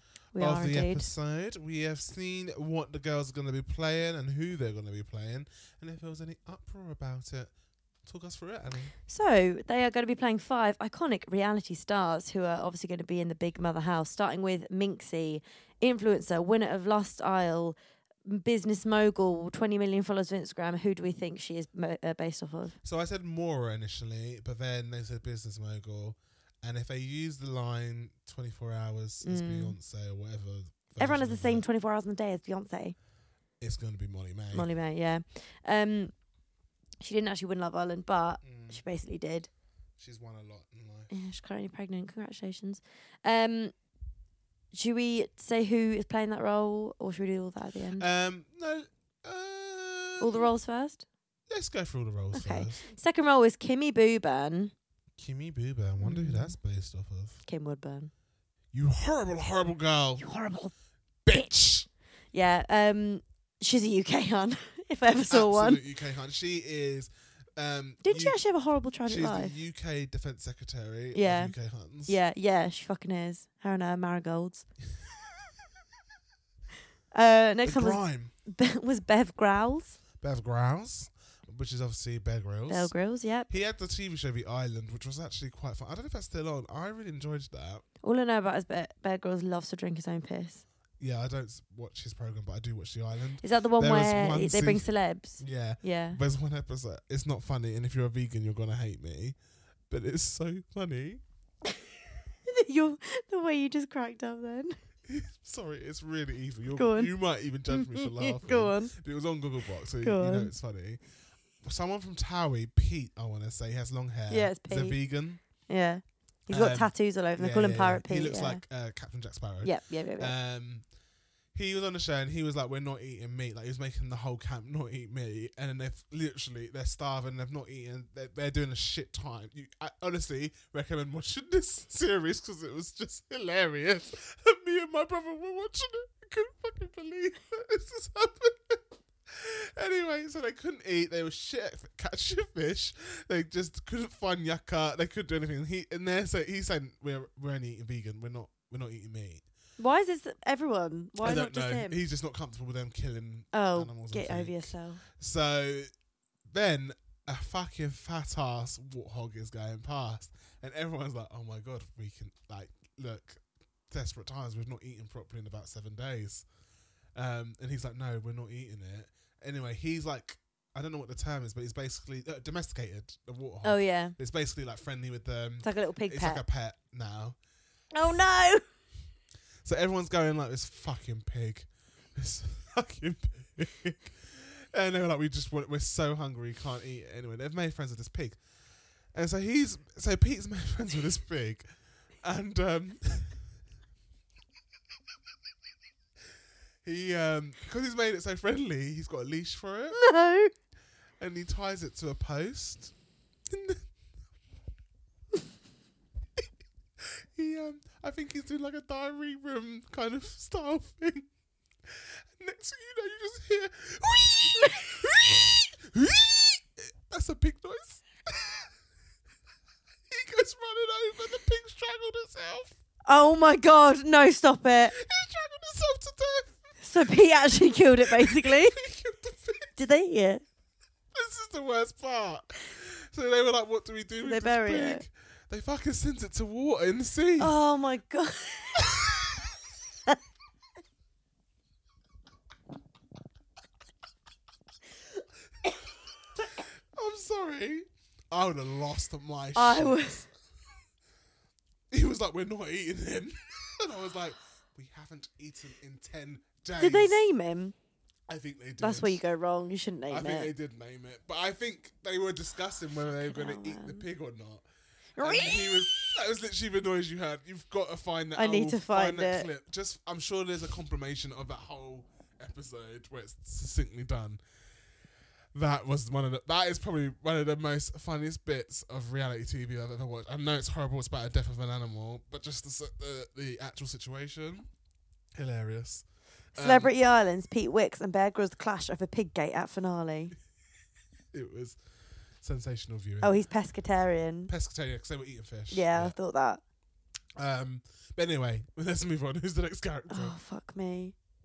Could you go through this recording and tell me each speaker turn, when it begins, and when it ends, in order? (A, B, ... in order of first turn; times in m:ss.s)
0:00.3-0:01.1 A
0:00.4-0:07.5 B
0:08.0-0:08.9 B
0:09.1-0:22.8 A
0:22.8-0:31.6 B
0:29.2-0:29.8 A
0:31.0-0:32.9 A
0:33.6-0:34.7 B
0:34.5-0:36.1 A
0:37.0-0:39.5 A
0:38.4-0:38.8 B
0:40.0-0:41.1 B
0:41.1-0:43.7 A
0:44.7-0:48.0 A
0:48.0-0:50.5 B
0:50.2-0:51.0 A
0:51.5-0:52.8 B
0:52.3-0:54.7 A
0:55.2-0:57.4 B
0:56.0-0:56.6 A
0:57.4-0:58.1 A
0:58.7-1:00.2 B
1:00.2-1:00.7 A
1:01.2-1:01.9 B
1:02.3-1:05.8 A
1:05.3-1:08.4 B
1:08.0-1:09.6 A
1:09.0-1:12.2 B
1:11.1-1:11.5 A
1:12.1-1:14.7 A
1:17.1-1:20.0 A
1:17.6-1:18.3 B
1:20.2-1:22.9 B
1:22.7-1:23.5 A
1:23.5-1:27.8 B
1:28.0-1:30.6 A
1:31.0-1:39.4 B
1:33.4-1:36.2 A
1:39.9-1:41.2 B
1:42.5-1:44.8 A
1:45.1-1:51.0 B
1:46.7-1:47.1 A
1:47.7-1:48.9 A
1:50.0-1:50.5 A
1:51.6-1:55.4 B
1:54.3-1:55.0 A
1:55.7-1:58.6 A
1:56.5-2:00.8 B
1:59.6-2:00.3 A
2:01.5-2:29.4 B
2:29.8-2:32.0 A
2:31.2-2:35.9 B
2:33.5-2:35.0 A
2:36.5-2:46.4 B
2:47.1-2:57.4 B
2:53.6-2:54.2 A
2:55.6-2:56.4 A
2:57.9-2:58.6 A
2:59.6-3:08.4 B
3:09.1-3:11.7 B
3:12.2-3:13.4 B
3:16.8-3:20.0 B
3:19.9-3:20.5 A
3:21.2-3:22.9 B
3:23.5-3:23.8 B
3:27.0-3:31.3 B
3:31.8-3:38.7 B
3:40.1-3:42.7 B
3:43.0-3:44.9 A
3:44.9-3:46.6 B
3:46.8-3:48.8 A
3:48.0-3:49.8 B
3:49.8-3:50.4 A
3:51.1-3:57.5 B
3:54.2-3:55.0 A
3:57.4-3:59.0 A
3:58.8-3:59.3 B
4:06.4-4:10.3 B
4:09.5-4:10.2 A
4:11.9-4:17.2 B
4:16.8-4:17.7 A
4:18.3-4:19.2 B
4:18.8-4:20.5 A
4:20.1-4:24.6 B
4:23.3-4:24.0 A
4:25.2-4:26.1 A
4:25.2-4:34.4 B
4:28.4-4:29.5 A
4:35.5-4:44.7 B
4:45.3-4:46.9 B
4:46.6-4:50.3 A
4:51.3-4:51.8 B
4:52.4-4:53.4 B
4:53.2-4:54.5 A
4:54.5-4:56.1 B
4:55.7-4:56.6 A
4:57.4-5:00.4 B
5:00.1-5:01.1 A